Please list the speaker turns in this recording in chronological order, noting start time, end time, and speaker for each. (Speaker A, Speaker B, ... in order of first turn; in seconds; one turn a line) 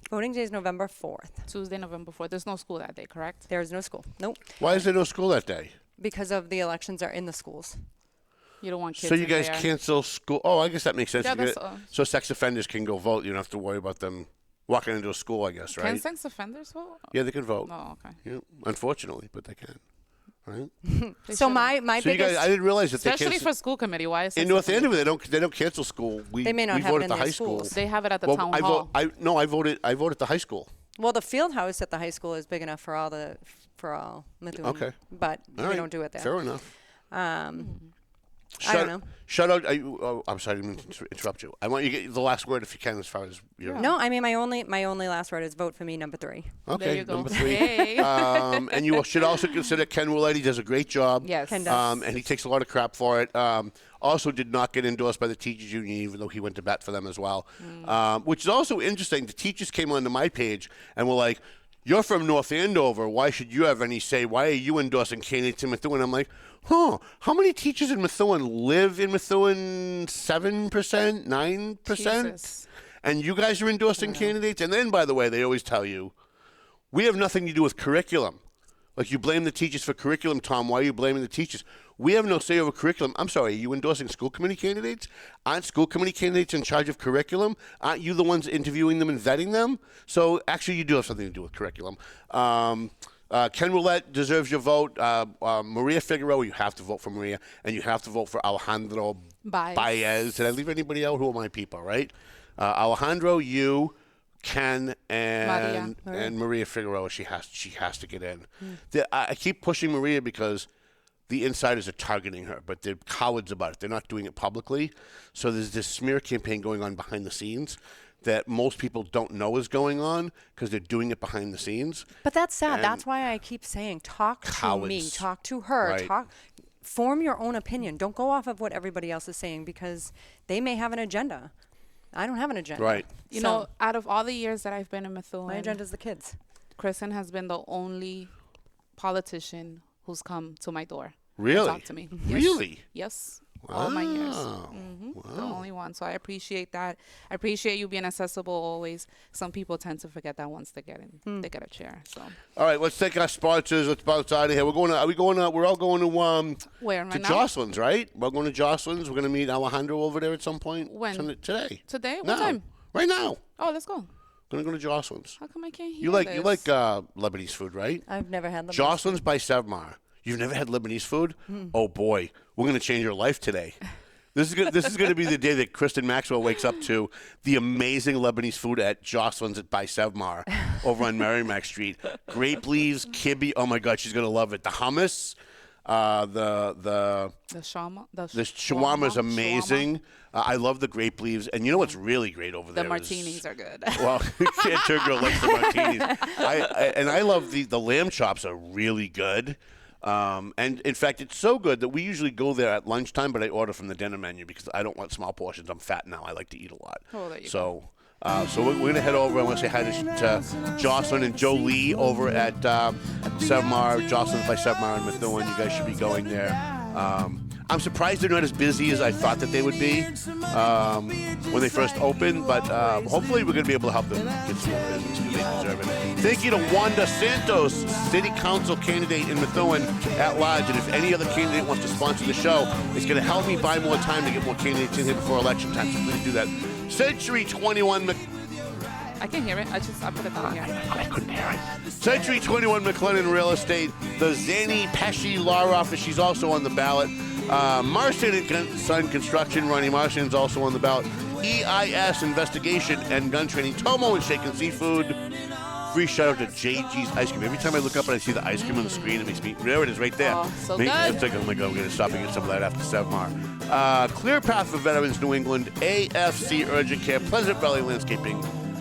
Speaker A: 0.1-1.5
Speaker B: 1.5-3.5
Speaker A: 3.5-4.6
Speaker C: 4.6-5.7
Speaker A: 6.0-7.8
Speaker B: 8.6-9.7
Speaker C: 8.9-16.0
Speaker B: 11.2-11.9
Speaker B: 15.7-18.2
Speaker C: 17.1-19.8
Speaker C: 20.4-20.7
Speaker A: 20.9-22.5
Speaker B: 21.3-21.8
Speaker C: 22.0-23.5
Speaker B: 23.0-25.0
Speaker C: 24.4-30.7
Speaker A: 26.4-27.8
Speaker B: 27.7-28.9
Speaker A: 31.0-36.4
Speaker C: 34.6-35.0
Speaker C: 35.5-36.7
Speaker A: 37.1-37.8
Speaker B: 37.6-37.9
Speaker C: 38.6-43.9
Speaker A: 38.6-39.1
Speaker B: 43.6-43.9
Speaker A: 43.8-46.6
Speaker C: 46.7-72.5
Speaker B: 46.7-48.2
Speaker A: 47.3-48.1
Speaker B: 51.2-51.7
Speaker A: 51.5-52.1
Speaker B: 57.6-57.9
Speaker B: 71.9-72.7
Speaker C: 73.0-76.1
Speaker C: 76.9-78.4
Speaker C: 79.0-110.7
Speaker B: 99.4-99.9
Speaker B: 105.4-106.0
Speaker A: 106.0-106.3
Speaker C: 111.3-122.1
Speaker A: 122.2-131.5
Speaker C: 122.7-123.0
Speaker C: 124.4-125.3
Speaker C: 125.8-126.1
Speaker A: 132.1-133.7
Speaker C: 132.8-133.1
Speaker B: 133.3-135.8
Speaker A: 135.5-136.4
Speaker B: 136.8-138.3
Speaker B: 138.9-152.4
Speaker C: 141.4-142.8
Speaker C: 143.6-145.6
Speaker C: 152.6-163.4
Speaker B: 156.8-157.5
Speaker B: 160.8-162.6
Speaker B: 163.6-164.1
Speaker C: 164.5-165.4
Speaker B: 165.4-166.7
Speaker C: 166.0-168.0
Speaker A: 168.1-169.2
Speaker C: 168.7-173.8
Speaker C: 174.3-187.3
Speaker B: 187.5-189.9
Speaker C: 188.3-193.4
Speaker B: 192.7-196.7
Speaker C: 193.9-238.2
Speaker B: 207.1-207.7
Speaker B: 239.2-240.8
Speaker C: 240.7-255.2
Speaker C: 255.9-268.5
Speaker B: 260.2-261.2